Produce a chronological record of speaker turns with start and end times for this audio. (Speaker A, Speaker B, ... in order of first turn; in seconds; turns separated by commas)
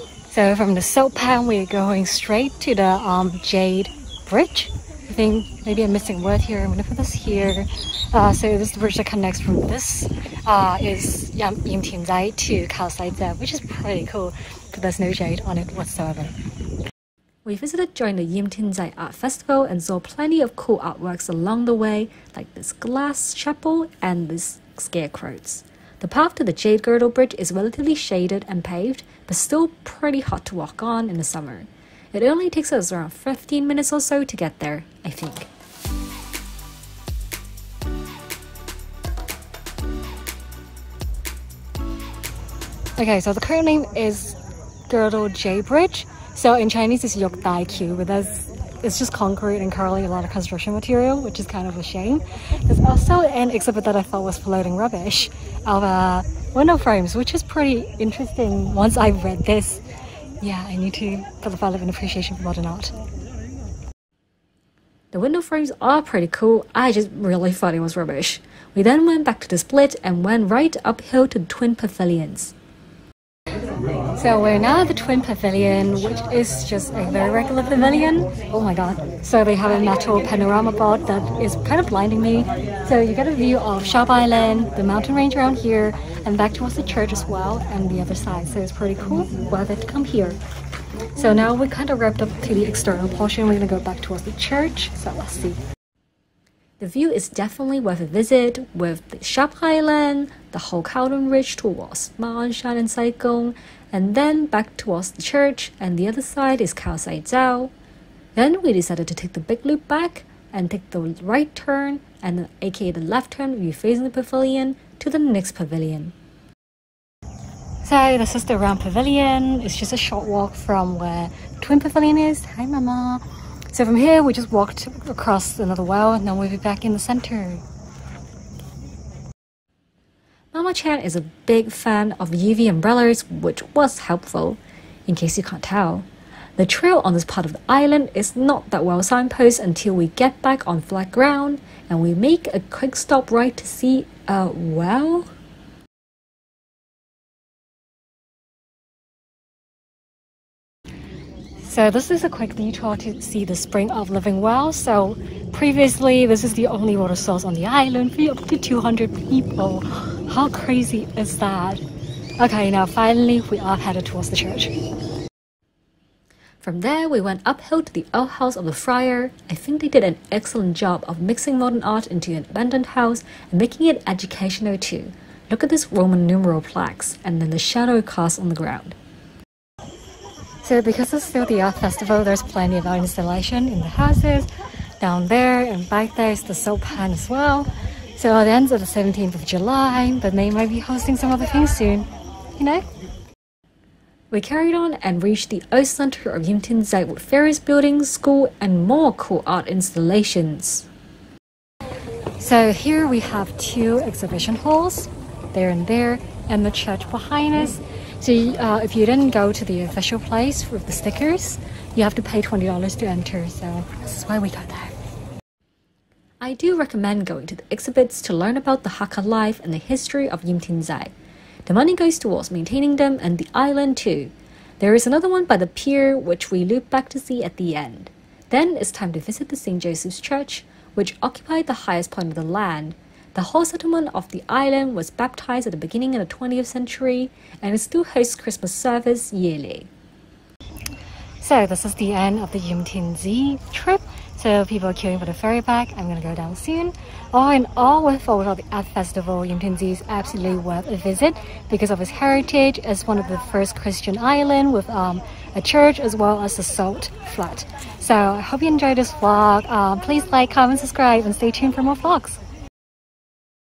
Speaker A: 0.3-16.3, Speaker B: 17.4-35.5, Speaker A: 43.0-44.4, Speaker A: 44.9-59.8, Speaker A: 60.4-63.0, Speaker B: 65.1-72.5, Speaker A: 74.1-90.4, Speaker A: 91.1-95.6, Speaker B: 96.8-107.7, Speaker B: 108.3-116.1, Speaker A: 117.8-127.6, Speaker B: 130.5-136.1, Speaker B: 136.6-145.3, Speaker A: 151.6-161.8, Speaker A: 162.4-164.8, Speaker B: 166.6-179.0, Speaker A: 180.6-184.5, Speaker A: 185.0-192.8, Speaker B: 194.3-200.9, Speaker A: 202.4-214.9, Speaker B: 216.4-221.1, Speaker B: 221.7-239.9, Speaker A: 241.4-262.4